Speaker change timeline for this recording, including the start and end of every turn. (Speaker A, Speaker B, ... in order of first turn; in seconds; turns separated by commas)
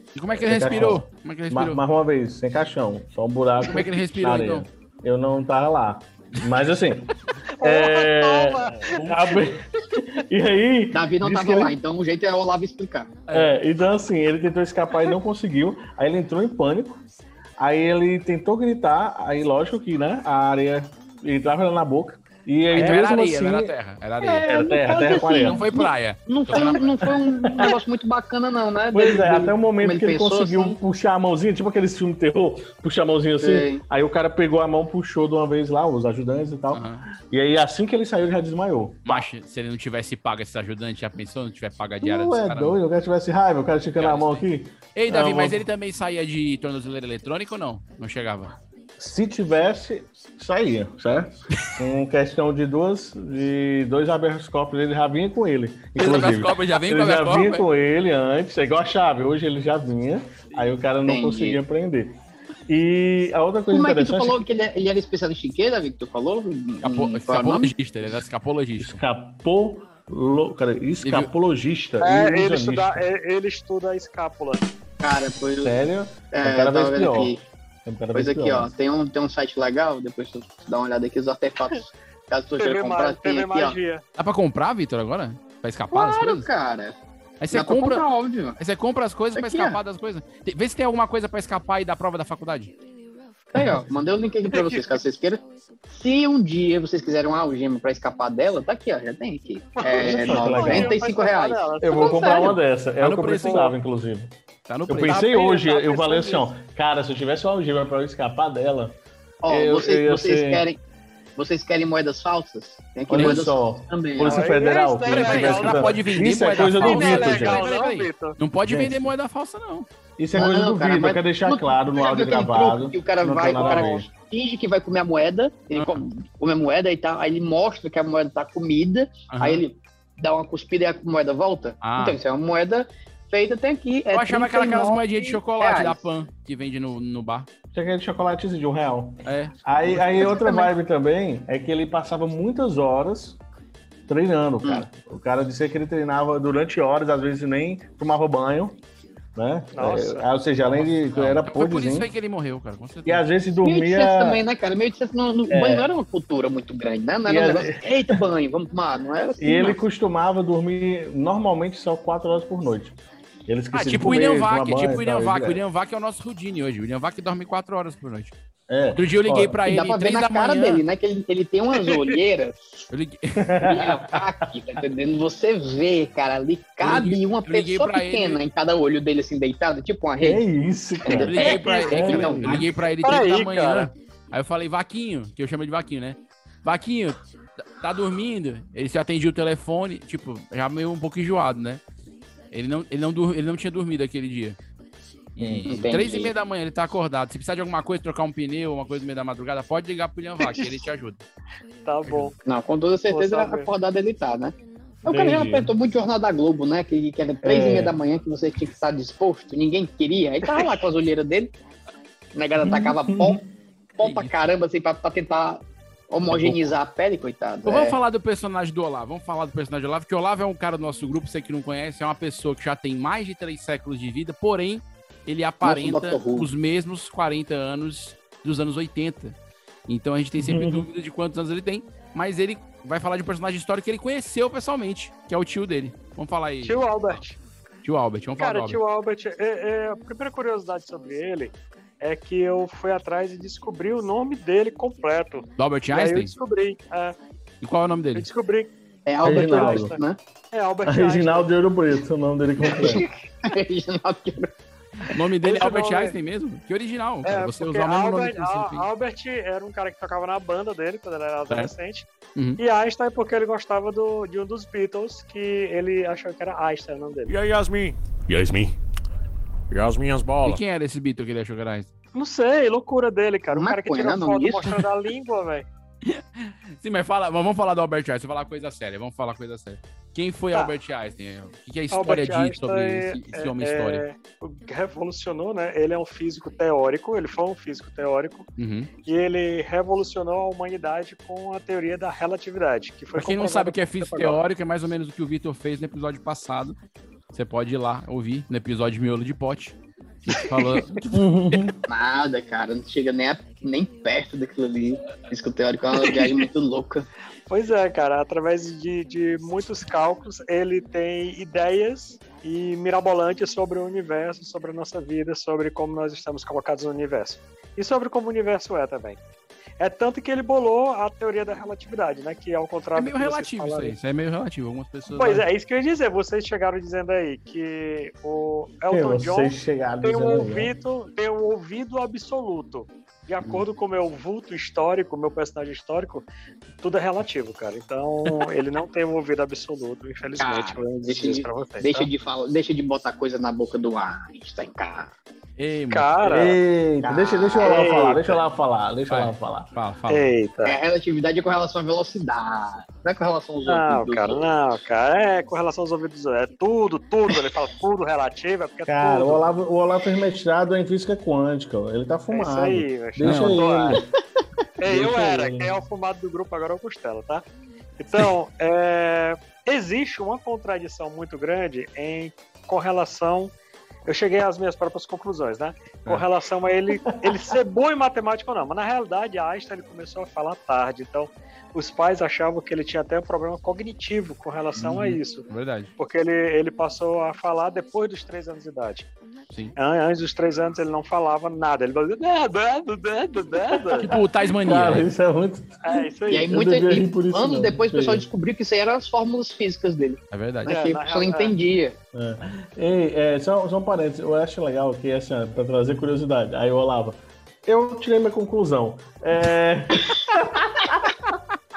Speaker A: 0.1-1.8, Speaker B: 0.4-11.7, Speaker A: 3.6-4.6, Speaker C: 7.6-9.4, Speaker D: 10.9-13.1, Speaker A: 13.3-13.5, Speaker B: 13.3-17.0, Speaker B: 17.6-23.7, Speaker A: 22.7-27.1, Speaker D: 24.2-30.8, Speaker B: 24.4-25.6, Speaker B: 27.4-27.7, Speaker B: 28.9-39.2, Speaker D: 33.4-33.8, Speaker A: 36.7-37.1, Speaker A: 39.0-42.8, Speaker B: 42.0-45.6, Speaker A: 44.0-44.4, Speaker A: 44.9-48.5, Speaker B: 49.0-62.1, Speaker A: 56.0-57.6, Speaker D: 61.0-61.6, Speaker B: 62.7-64.4, Speaker D: 63.7-67.7, Speaker A: 66.8-69.0, Speaker B: 68.8-73.0, Speaker A: 71.0-71.3, Speaker C: 72.0-74.6, Speaker D: 75.0-77.4, Speaker B: 75.6-78.7, Speaker D: 78.1-83.8, Speaker C: 82.6-84.0, Speaker A: 84.2-86.5, Speaker D: 85.9-87.0, Speaker A: 87.4-88.1, Speaker D: 87.5-88.6, Speaker A: 88.6-92.7, Speaker D: 89.3-89.8, Speaker D: 93.5-102.5, Speaker C: 99.8-102.5, Speaker B: 99.9-101.0, Speaker B: 101.8-104.3, Speaker A: 103.0-103.8, Speaker A: 104.7-105.2, Speaker B: 104.9-109.0, Speaker C: 105.1-106.5, Speaker D: 109.4-110.8, Speaker B: 109.5-110.7, Speaker D: 111.4-114.5, Speaker B: 113.1-117.6, Speaker A: 113.1-113.4, Speaker C: 114.2-118.4, Speaker A: 115.0-119.9, Speaker B: 118.6-119.1, Speaker B: 120.2-124.1, Speaker D: 120.3-136.0, Speaker C: 123.5-123.9, Speaker A: 125.8-126.1, Speaker A: 129.3-129.6, Speaker A: 131.8-132.2, Speaker A: 134.1-137.5, Speaker B: 137.7-143.4, Speaker A: 139.2-140.2, Speaker D: 140.2-140.7, Speaker B: 144.1-148.8, Speaker B: 149.3-152.1, Speaker C: 149.7-150.3, Speaker A: 150.8-153.2, Speaker B: 153.1-154.4, Speaker D: 153.6-159.8, Speaker B: 155.5-155.9, Speaker B: 157.2-158.2, Speaker B: 159.4-162.9, Speaker B: 163.5-165.6, Speaker A: 163.7-168.3, Speaker B: 168.7-169.6, Speaker A: 168.9-170.8, Speaker D: 169.7-172.7, Speaker A: 172.9-173.6, Speaker B: 173.4-174.2, Speaker D: 173.6-180.4, Speaker A: 176.8-178.4, Speaker B: 180.2-182.7, Speaker D: 181.1-182.7, Speaker A: 181.2-191.8, Speaker C: 183.0-183.9, Speaker A: 192.5-194.6, Speaker A: 195.3-201.2, Speaker B: 195.4-195.7, Speaker D: 195.7-196.3, Speaker C: 200.4-200.8, Speaker C: 201.8-202.3, Speaker D: 202.4-211.5, Speaker C: 203.1-203.7, Speaker B: 205.1-205.7, Speaker B: 207.4-208.0, Speaker D: 212.3-213.4, Speaker B: 212.6-213.4, Speaker D: 214.0-218.0, Speaker A: 214.0-214.5, Speaker A: 217.6-229.3, Speaker D: 225.6-226.5, Speaker A: 229.9-237.2, Speaker B: 230.4-230.9, Speaker C: 236.6-237.4, Speaker A: 237.8-238.8, Speaker C: 238.4-247.2, Speaker A: 245.6-246.3, Speaker A: 247.6-248.3, Speaker C: 248.1-248.7, Speaker D: 249.1-250.2, Speaker B: 249.2-249.9, Speaker C: 249.2-250.0, Speaker C: 250.5-251.5, Speaker B: 250.8-253.0, Speaker D: 252.6-254.5, Speaker A: 255.1-258.9, Speaker C: 255.4-256.1, Speaker C: 257.2-262.1, Speaker A: 262.3-262.6, Speaker C: 262.6-267.3, Speaker E: 267.2-268.7, Speaker E: 269.7-270.6, Speaker A: 270.4-271.9, Speaker C: 272.1-275.6, Speaker D: 273.5-274.8, Speaker A: 276.0-284.0, Speaker C: 281.9-288.5, Speaker A: 288.6-288.9, Speaker C: 289.1-294.4, Speaker A: 293.1-296.8, Speaker A: 297.3-299.7, Speaker A: 300.3-301.2, Speaker B: 301.1-301.8, Speaker D: 301.9-307.1, Speaker C: 305.9-306.4, Speaker C: 307.5-319.2, Speaker C: 319.8-323.9, Speaker A: 322.9-325.4, Speaker C: 325.1-336.2, Speaker B: 328.9-330.7, Speaker C: 336.8-342.1, Speaker D: 340.4-345.1, Speaker A: 345.6-346.1, Speaker C: 345.9-346.6, Speaker B: 346.2-349.7, Speaker D: 347.0-347.9, Speaker C: 347.6-348.3, Speaker A: 349.1-350.3, Speaker C: 350.1-350.8, Speaker D: 350.6-354.5, Speaker C: 353.6-359.4, Speaker B: 358.9-364.1, Speaker C: 362.3-364.0, Speaker A: 363.2-363.6, Speaker C: 364.8-367.4, Speaker B: 364.8-365.8, Speaker C: 368.0-373.5, Speaker C: 374.1-385.5, Speaker B: 377.0-377.4, Speaker A: 384.8-385.9, Speaker C: 386.0-389.1, Speaker C: 389.8-394.1, Speaker B: 393.8-398.2, Speaker A: 394.0-395.1, Speaker C: 395.8-396.5, Speaker D: 396.3-401.9, Speaker A: 400.3-400.7, Speaker C: 400.6-401.6, Speaker B: 402.1-411.0